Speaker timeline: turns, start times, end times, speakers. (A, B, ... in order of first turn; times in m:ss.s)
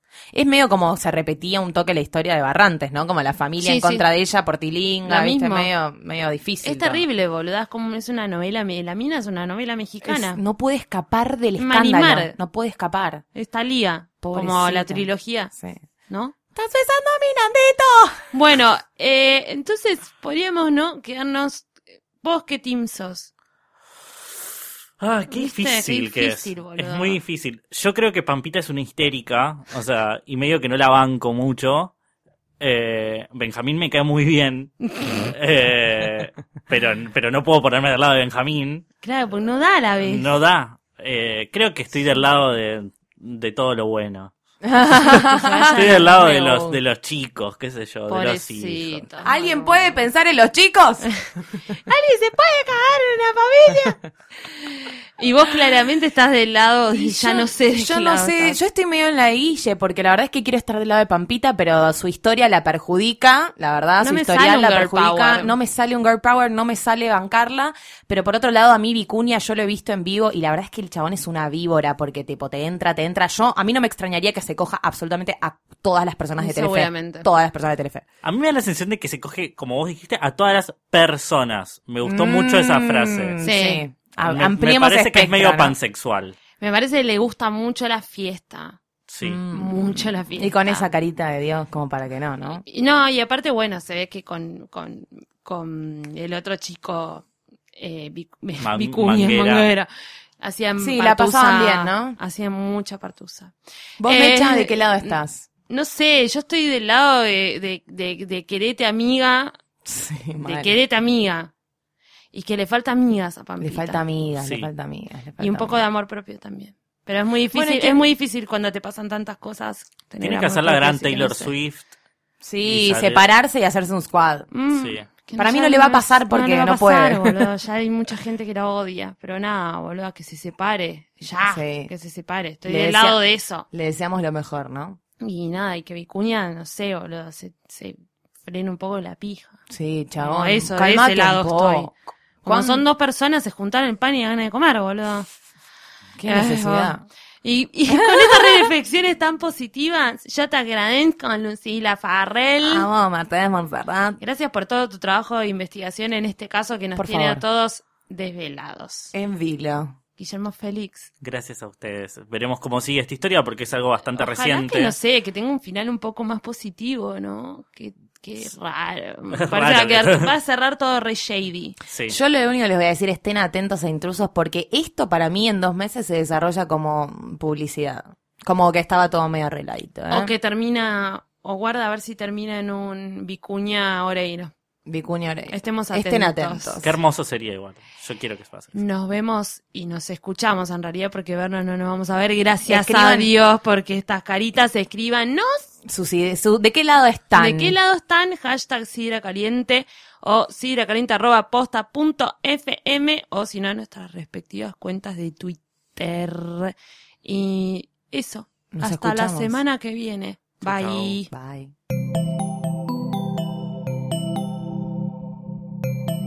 0:00.3-0:07.0 A
0:03.6-0:04.0 B
0:05.0-0:05.7 B
0:06.6-0:10.4 B
0:10.0-0:13.2 A
0:11.6-0:12.4 B
0:13.3-0:15.5 B
0:14.2-0:15.8 A
0:16.1-0:16.3 B
0:16.5-0:18.2 A
0:18.3-0:23.3 B
0:25.0-0:31.9 C
0:25.3-0:27.2 B
0:32.6-0:38.8 C
0:39.0-0:40.3 B
0:40.0-0:44.3 C
0:44.6-0:46.8 A
0:45.1-0:46.6 B
0:45.8-0:49.0 C
0:48.1-0:50.0 B
0:49.2-0:51.1 A
0:51.9-0:58.6 B
0:56.9-1:18.0 A
1:04.0-1:05.5 B
1:16.4-1:17.3 B
1:18.2-1:23.4 C
1:22.0-1:25.7 A
1:23.4-1:23.8 B
1:24.2-1:26.4 C
1:26.6-1:28.8 B
1:29.1-1:29.4 C
1:29.2-1:32.6 A
1:29.5-1:30.9 B
1:32.6-1:39.9 B
1:38.6-1:39.7 C
1:40.4-1:49.6 B
1:40.8-1:42.2 A
1:44.0-1:45.5 A
1:49.8-1:50.8 A
1:50.4-1:51.5 B
1:52.3-1:54.0 B
1:53.6-1:55.8 A
1:54.4-1:54.7 C
1:55.4-2:01.5 B
1:57.5-1:58.0 A
2:00.2-2:01.9 C
2:02.4-2:04.5 A
2:02.6-2:03.2 C
2:04.5-2:13.6 B
2:04.7-2:05.1 C
2:05.4-2:07.4 A
2:11.4-2:11.9 A
2:12.6-2:15.0 A
2:15.2-2:19.6 B
2:19.7-2:22.8 A
2:20.2-2:21.9 B
2:22.4-2:25.3 B
2:26.2-2:27.0 A
2:26.2-2:32.9 B
2:27.9-2:28.7 A
2:32.6-2:34.2 A
2:34.2-2:39.1 B
2:37.0-2:37.4 A
2:39.1-2:40.0 A
2:40.2-2:41.1 B
2:41.2-2:44.9 C
2:44.1-2:51.8 B
2:49.3-2:50.3 C
2:51.9-2:52.2 C
2:52.1-3:00.3 A
3:00.1-3:04.5 B
3:04.8-3:06.9 A
3:05.5-3:06.8 B
3:06.8-3:08.7 C
3:08.7-3:15.7 B
3:12.7-3:13.3 A
3:15.8-3:17.8 A
3:17.3-3:31.3 B
3:28.7-3:29.6 A
3:30.6-3:31.0 C
3:31.0-3:31.7 A